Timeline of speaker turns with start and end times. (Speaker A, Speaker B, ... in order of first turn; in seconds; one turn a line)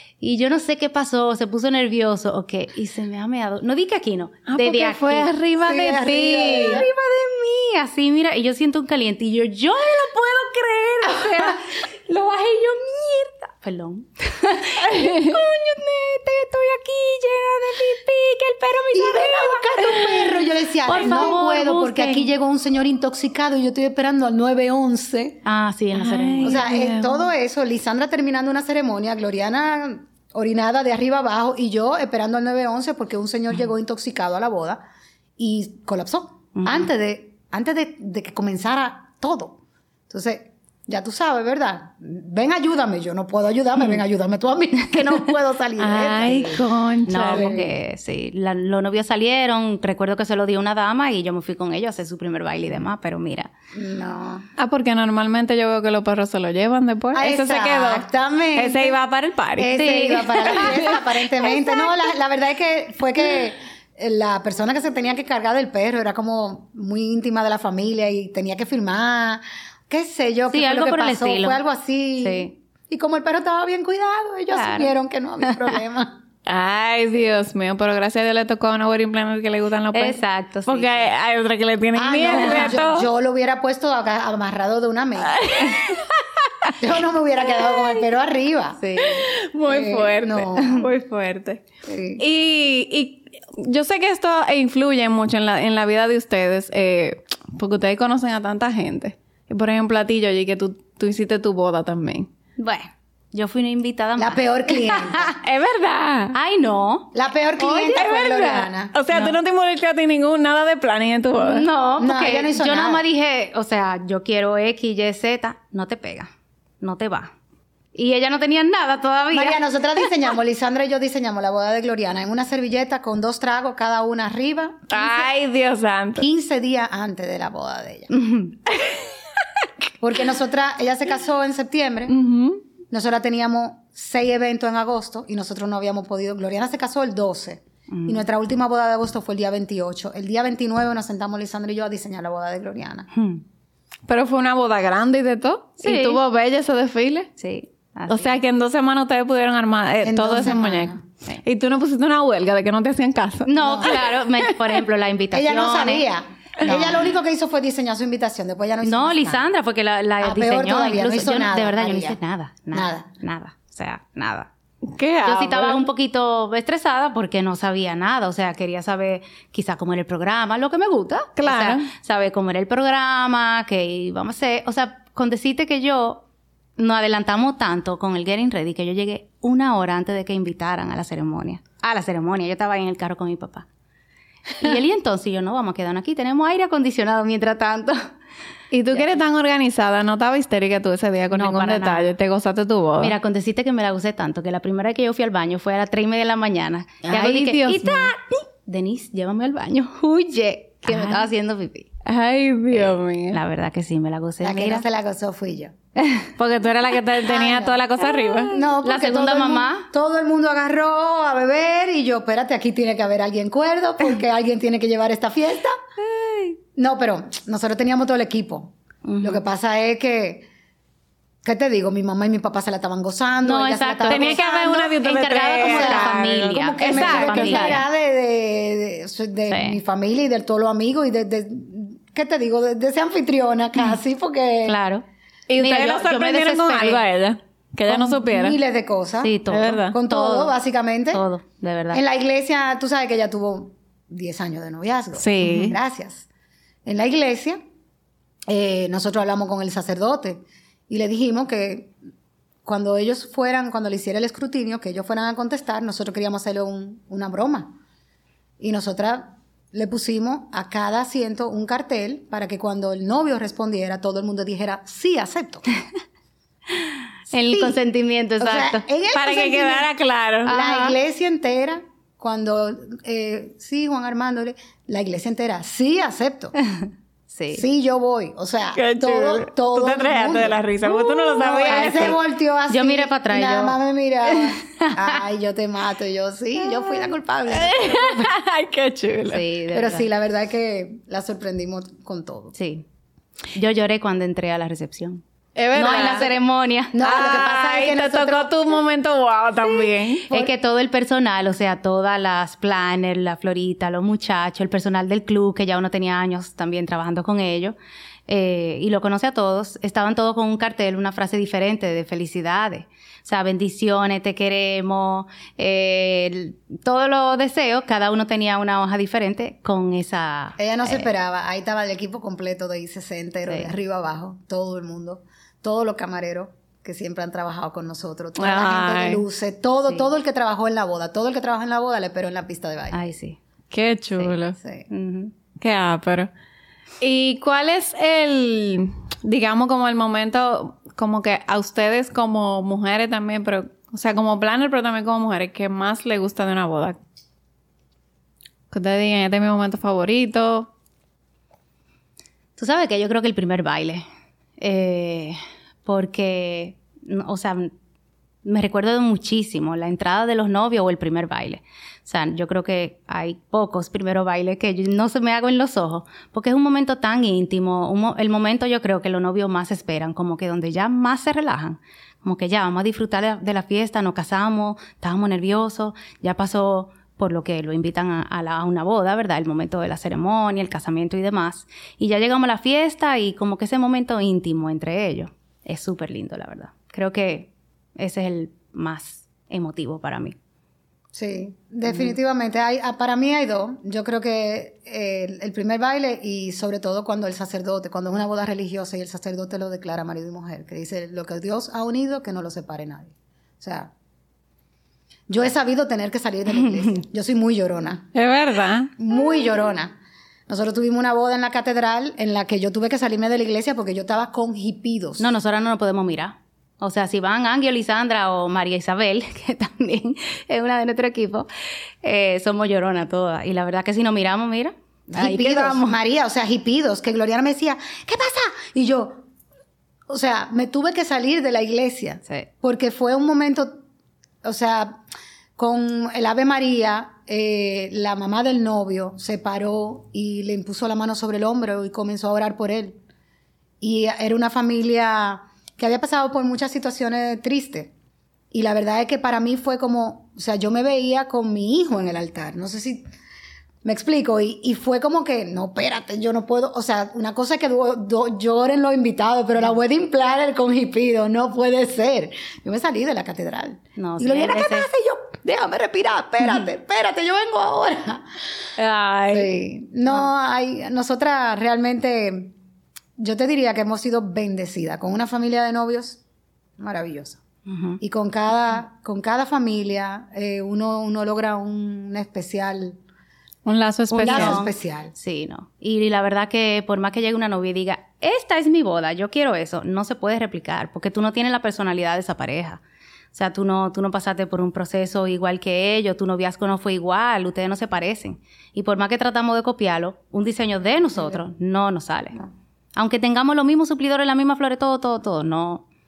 Speaker A: 0.2-20.1
Speaker B: 4.5-6.8
Speaker C: 5.6-6.9
Speaker B: 14.9-15.3
Speaker C: 18.9-25.4
Speaker A: 20.8-22.3
Speaker A: 25.4-26.6
Speaker B: 25.9-27.3
Speaker C: 26.4-34.8
Speaker C: 35.4-39.6
Speaker A: 36.5-36.9
Speaker C: 40.1-46.6
Speaker B: 45.8-47.5
Speaker A: 47.1-53.5
Speaker C: 47.3-47.7
Speaker C: 53.7-54.5
Speaker B: 54.6-58.0
Speaker C: 57.1-59.0
Speaker B: 58.5-60.9
Speaker C: 59.6-76.2
Speaker A: 59.7-60.8
Speaker A: 70.5-71.6
Speaker A: 72.2-72.5
Speaker A: 74.5-74.9
Speaker B: 76.5-83.0
Speaker A: 79.9-81.1
Speaker C: 81.9-85.4
Speaker A: 82.3-82.7
Speaker B: 85.3-86.7
Speaker C: 86.8-88.9
Speaker A: 88.8-89.2
Speaker B: 89.0-91.6
Speaker C: 89.7-90.9
Speaker A: 90.6-90.8
Speaker C: 91.8-92.2
Speaker B: 92.2-102.3
Speaker A: 102.6-105.3
Speaker C: 104.2-105.4
Speaker B: 105.4-106.3
Speaker A: 106.3-107.1
Speaker C: 107.1-109.3
Speaker B: 107.6-111.7
Speaker A: 111.4-117.3
Speaker C: 112.0-113.0
Speaker A: 117.9-119.6
Speaker C: 119.3-125.3
Speaker B: 124.9-126.2
Speaker C: 126.2-128.1
Speaker A: 128.1-128.5
Speaker C: 130.0-132.2
Speaker B: 132.1-132.6
Speaker C: 132.9-143.1
Speaker A: 137.9-138.2
Speaker A: 143.1-143.4
Speaker B: 144.1-147.3
Speaker A: 145.8-146.2
Speaker A: 147.4-148.4
Speaker B: 148.1-154.8
Speaker C: 150.0-151.0
Speaker A: 153.4-156.1
Speaker C: 153.6-154.0
Speaker C: 155.3-159.4
Speaker A: 156.6-157.0
Speaker A: 158.8-164.5
Speaker C: 160.2-162.2
Speaker C: 162.7-163.1
Speaker B: 164.8-165.8
Speaker A: 165.2-176.2
Speaker B: 171.4-171.8
Speaker A: 176.8-183.7
Speaker A: 184.6-188.1
Speaker B: 188.7-193.2
Speaker A: 191.3-192.1
Speaker A: 193.0-201.9
Speaker B: 197.0-198.1
Speaker B: 200.8-201.3
Speaker B: 202.0-203.4
Speaker A: 202.7-204.8
Speaker C: 204.4-205.7
Speaker A: 206.0-206.3
Speaker B: 206.4-208.5
Speaker C: 207.2-207.8
Speaker A: 208.0-209.9
Speaker C: 208.5-215.7
Speaker A: 216.1-216.6
Speaker C: 216.7-220.5
Speaker A: 219.0-219.4
Speaker C: 221.4-224.9
Speaker A: 223.4-227.8
Speaker B: 224.1-227.8
Speaker C: 225.6-234.8
Speaker A: 229.5-229.8
Speaker A: 234.6-235.0
Speaker B: 235.5-238.6
Speaker A: 235.6-237.0
Speaker C: 237.9-241.2
Speaker A: 239.2-240.5
Speaker B: 239.5-240.0
Speaker A: 241.1-242.0
Speaker C: 241.9-246.2
Speaker B: 245.2-245.8
Speaker C: 246.8-247.6
Speaker C: 248.5-251.9
Speaker C: 252.6-257.8
Speaker C: 258.6-265.7
Speaker A: 267.3-268.8
Speaker C: 267.3-267.8
Speaker C: 268.4-269.9
Speaker B: 269.1-270.5
Speaker A: 270.4-270.9
Speaker C: 270.5-276.5
Speaker A: 276.8-277.6
Speaker C: 277.5-288.3
Speaker B: 278.7-282.2
Speaker A: 281.7-282.1
Speaker A: 282.7-285.2
Speaker B: 287.5-289.4
Speaker A: 289.3-290.1
Speaker C: 289.7-292.5
Speaker A: 292.5-292.9
Speaker A: 293.5-295.2
Speaker B: 295.6-296.3
Speaker C: 295.7-296.4
Speaker A: 295.7-297.0
Speaker C: 296.9-298.5
Speaker B: 297.0-300.3
Speaker A: 300.3-307.8
Speaker A: 308.3-321.1
Speaker C: 320.6-333.0
Speaker A: 323.4-323.7
Speaker B: 328.4-329.2
Speaker A: 332.9-333.4
Speaker B: 333.7-334.5
Speaker C: 334.2-334.9
Speaker A: 334.9-335.3
Speaker B: 335.6-336.3
Speaker B: 337.0-347.0
Speaker B: 348.7-350.7
Speaker A: 352.6-354.0
Speaker A: 354.6-357.7
Speaker A: 358.4-390.4
Speaker C: 391.1-403.9
Speaker A: 391.9-392.1
Speaker C: 405.3-408.1
Speaker A: 406.5-407.0
Speaker B: 408.1-408.9
Speaker C: 409.0-415.3
Speaker A: 415.2-421.5
Speaker A: 422.0-425.9
Speaker C: 425.1-429.2
Speaker C: 430.1-433.8
Speaker C: 434.4-435.0
Speaker C: 435.6-443.0
Speaker C: 443.8-447.9
Speaker C: 448.5-453.0
Speaker C: 453.8-468.2
Speaker A: 464.0-464.9
Speaker A: 468.8-469.4
Speaker C: 469.3-472.5
Speaker C: 473.2-476.2
Speaker C: 476.8-477.4
Speaker A: 477.6-478.0
Speaker C: 478.0-483.0
Speaker B: 483.6-484.6
Speaker A: 484.1-492.8
Speaker C: 484.2-485.1
Speaker A: 493.3-502.4
Speaker A: 502.9-505.9